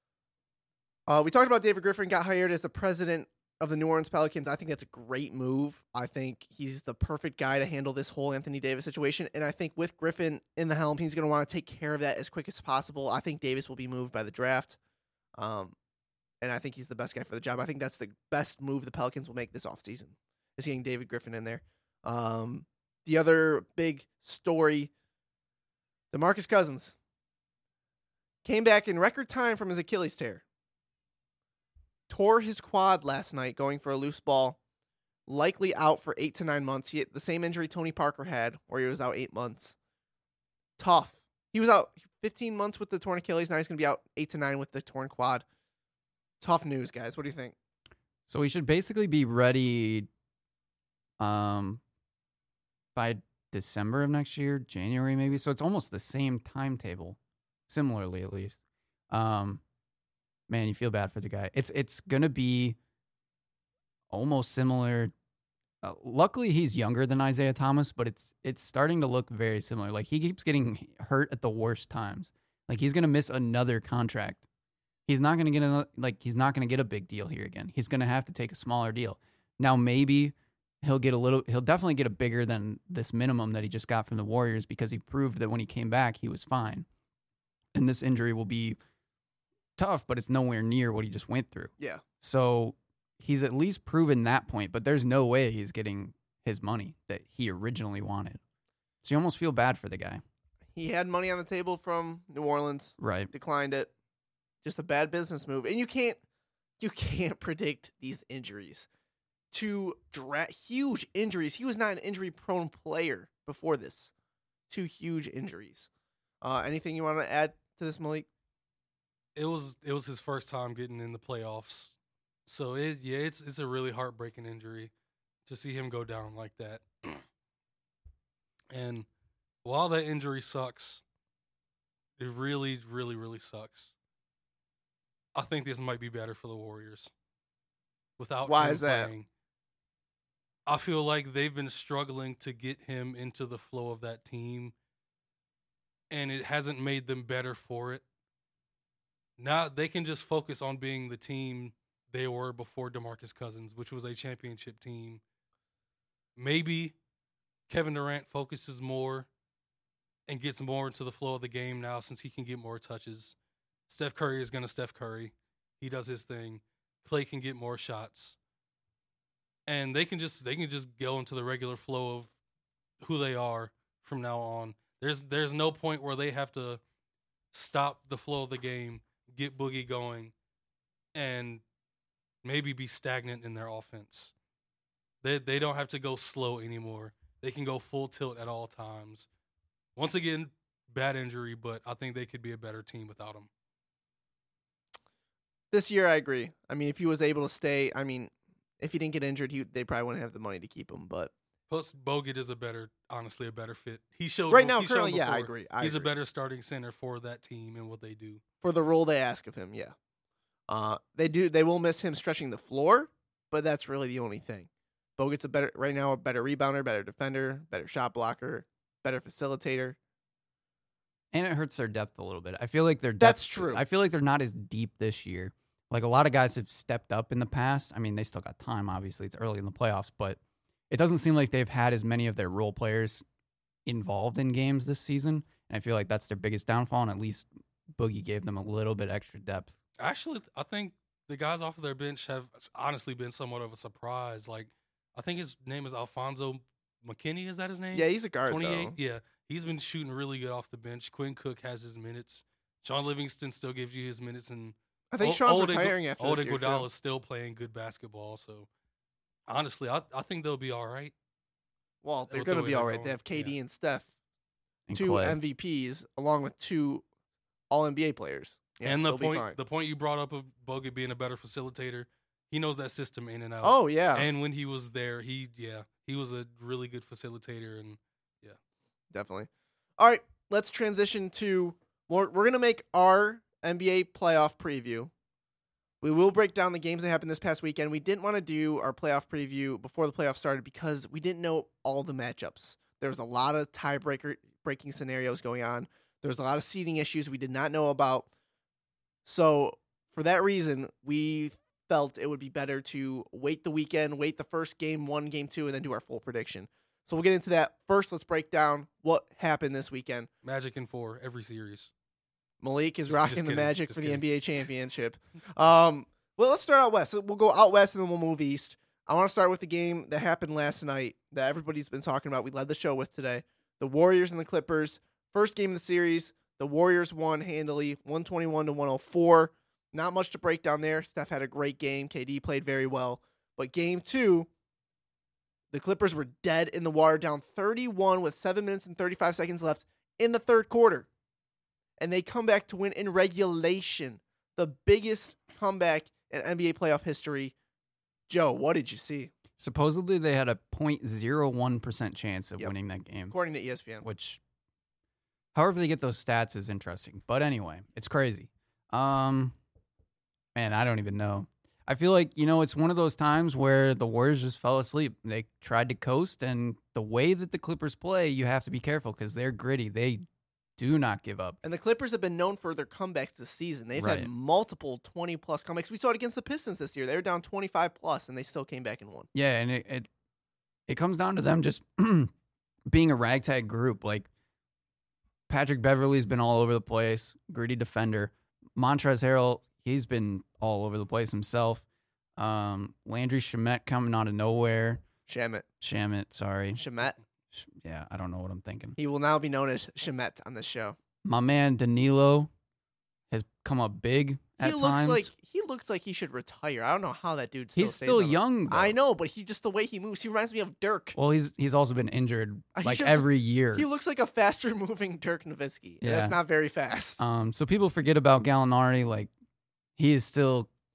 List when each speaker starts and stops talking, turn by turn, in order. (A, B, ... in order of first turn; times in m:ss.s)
0:01.1-0:14.8 A
0:15.4-0:15.8 A
0:16.4-0:24.9 A
0:26.1-0:27.0 A
0:28.4-0:30.4 A
0:32.1-0:34.6 A
0:35.3-0:39.8 A
0:40.8-0:45.4 A
0:46.4-0:47.6 A
0:48.3-0:50.1 B
0:51.2-0:51.8 B
0:53.0-0:58.6 B
0:59.1-0:59.6 B
1:00.5-1:02.8 B
1:04.1-1:05.1 B
1:05.8-1:14.4 B
1:15.1-1:26.9 B
1:27.7-1:28.8 B
1:29.8-1:38.4 B
1:39.0-1:40.2 B
1:40.8-1:43.9 A
1:43.0-1:43.3 B
1:44.6-1:46.2 A
1:46.8-1:48.9 A
1:49.5-1:54.1 A
1:54.7-1:55.9 A
1:56.4-1:58.3 A
1:59.4-2:04.9 C
2:05.5-2:07.2 C
2:08.7-2:09.1 C
2:09.6-2:11.0 C
2:12.2-2:13.9 C
2:15.4-2:17.1 C
2:18.2-2:19.3 C
2:18.5-2:19.1 A
2:20.7-2:24.7 C
2:26.1-2:28.0 C
2:29.4-2:35.2 C
2:36.4-2:37.0 C
2:37.7-2:39.3 C
2:40.3-2:43.4 C
2:43.9-2:48.4 C
2:49.7-2:52.3 C
2:53.0-2:56.8 C
2:57.5-3:00.3 C
3:01.2-3:01.6 C
3:02.4-3:04.3 C
3:05.2-3:09.3 C
3:10.0-3:13.5 C
3:15.7-3:21.3 A
3:21.7-3:28.4 C
3:24.5-3:26.1 A
3:28.6-3:29.9 A
3:30.7-3:40.0 A
3:41.3-3:50.4 B
3:43.2-3:43.8 A
3:50.9-3:53.2 B
3:53.9-3:59.7 B
4:00.0-4:18.7 C
4:07.9-4:09.0 A
4:15.1-4:16.9 A
4:19.5-4:21.1 C
4:22.0-4:24.1 A
4:22.3-4:23.5 C
4:24.9-4:25.4 B
4:24.9-4:27.0 A
4:27.7-4:29.6 A
4:28.8-4:38.6 C
4:33.6-4:34.3 A
4:39.1-4:45.1 A
4:46.0-4:58.3 A
4:59.2-5:10.3 A
5:10.4-5:11.9 C
5:12.6-5:34.5 A
5:13.1-5:14.2 C
5:35.7-5:41.1 A
5:42.0-5:47.5 A
5:48.3-5:49.3 A
5:49.6-5:53.4 B
5:53.3-5:54.1 A
5:54.0-5:54.4 B
5:55.5-5:59.6 B
6:00.6-6:10.2 B
6:10.8-6:11.6 B
6:11.6-6:19.3 A
6:14.0-6:14.3 B
6:19.3-6:20.1 B
6:20.9-6:22.3 B
6:22.9-6:24.3 B
6:25.5-6:31.8 B
6:32.4-6:35.0 B
6:35.3-6:35.7 A
6:35.8-6:36.8 B
6:36.8-6:37.2 A
6:37.5-6:39.0 B
6:39.0-6:41.0 A
6:41.2-6:42.5 B
6:43.3-6:45.3 B
6:44.6-6:51.2 A
6:47.8-6:49.0 B
6:51.2-6:53.9 B
6:52.8-6:57.2 A
6:56.0-6:56.4 B
6:57.2-6:59.3 B
7:00.0-7:00.7 B